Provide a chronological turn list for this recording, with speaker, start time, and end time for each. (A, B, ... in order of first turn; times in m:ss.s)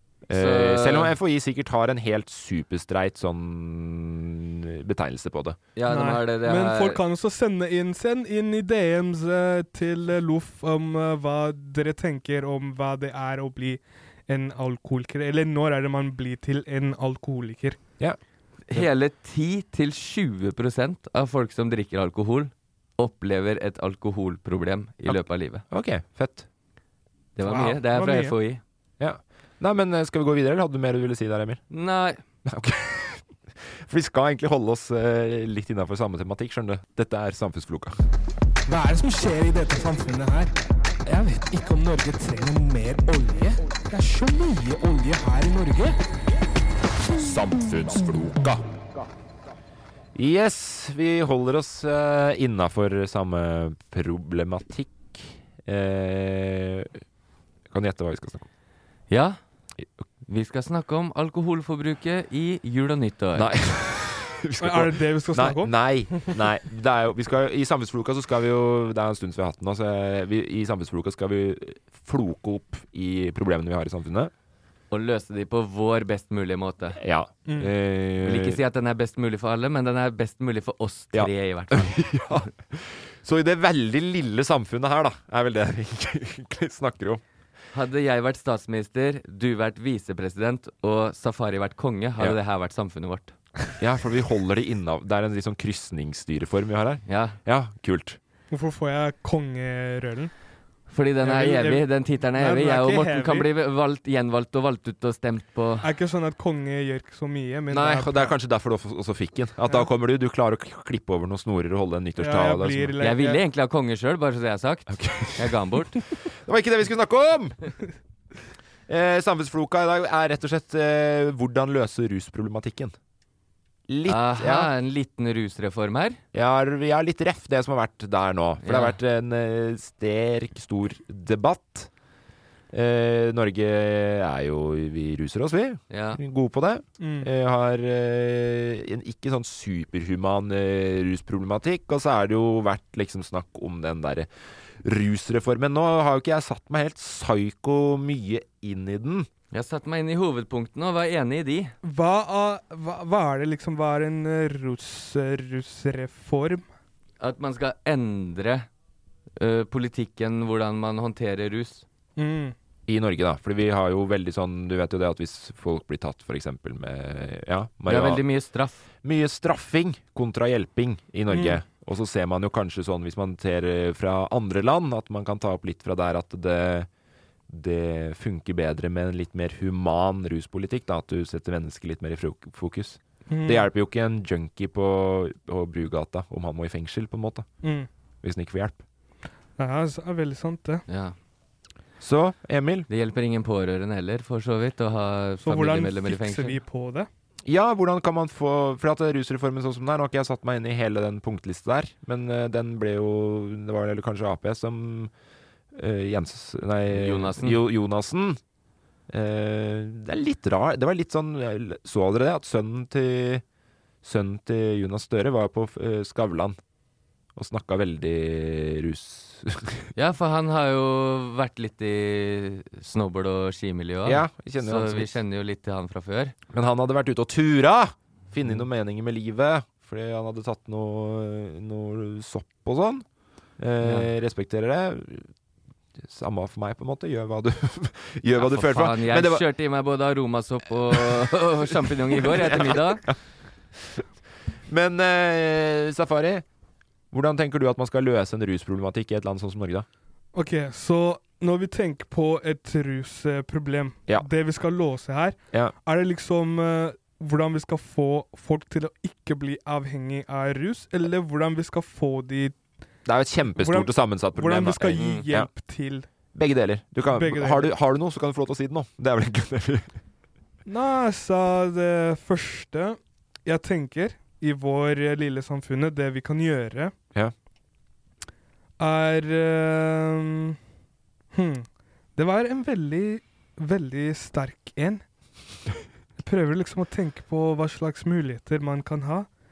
0:00.3-0:05.6 A
0:00.3-0:01.1 B
0:05.8-0:07.0 B
0:05.9-0:17.8 C
0:18.7-0:25.6 B
0:25.1-0:26.5 A
0:27.4-0:28.6 B
0:27.4-0:28.4 C
0:29.0-0:31.6 A
0:31.7-0:32.2 B
0:32.5-0:37.9 A
0:38.7-0:40.5 D
0:41.1-0:45.9 D
0:47.2-0:48.6 A
0:50.2-0:57.0 A
0:57.7-0:58.5 A
0:59.1-0:59.4 B
1:00.3-1:03.5 B
1:03.4-1:14.3 A
1:04.6-1:06.3 C
1:14.9-1:17.0 B
1:17.0-1:18.6 A
1:18.2-1:22.1 B
1:21.1-1:27.2 A
1:27.7-1:33.4 B
1:33.8-1:38.2 A
1:37.1-1:37.4 B
1:38.5-1:40.3 C
1:40.9-1:45.9 B
1:41.2-1:43.5 C
1:45.8-1:48.3 C
1:47.7-1:53.0 A
1:52.2-1:53.4 C
1:53.0-1:56.0 B
1:54.9-1:55.6 A
1:56.3-1:57.6 A
1:58.9-2:03.0 A
2:03.9-2:04.7 A
2:04.1-2:06.2 B
2:06.3-2:11.9 A
2:08.6-2:09.0 B
2:12.7-2:24.3 A
2:15.9-2:16.2 B
2:17.0-2:17.3 C
2:24.8-2:29.3 A
2:29.5-2:31.7 B
2:31.8-2:36.6 C
2:37.2-2:38.7 B
2:39.4-2:41.8 B
2:42.2-2:42.6 C
2:42.9-2:48.2 A
2:47.9-2:48.9 B
2:49.0-2:56.9 A
2:51.3-2:51.6 C
2:57.5-3:07.5 A
3:03.3-3:03.7 C
3:07.6-3:07.9 C
3:08.2-3:08.8 A
3:09.6-3:10.8 C
3:10.9-3:11.2 B
3:12.0-3:12.9 A
3:12.9-3:16.6 B
3:15.4-3:17.1 C
3:17.5-3:25.1 A
3:25.8-3:28.4 A
3:26.9-3:27.6 B
3:29.1-3:33.4 A
3:34.0-3:36.6 A
3:37.4-3:39.9 A
3:40.0-3:46.3 B
3:44.0-3:45.1 A
3:46.5-3:53.0 A
3:53.6-3:55.3 A
3:53.8-3:54.1 B
3:56.0-3:59.5 A
3:58.4-4:03.1 B
4:00.9-4:01.3 A
4:02.1-4:03.2 A
4:04.7-4:06.4 A
4:07.1-4:09.8 A
4:10.4-4:22.6 C
4:23.1-4:25.5 A
4:23.6-4:26.1 C
4:25.0-4:25.3 B
4:26.3-4:29.9 A
4:27.1-4:27.7 C
4:30.7-4:36.9 C
4:38.8-4:40.6 C
4:41.3-4:45.0 C
4:46.2-4:49.3 C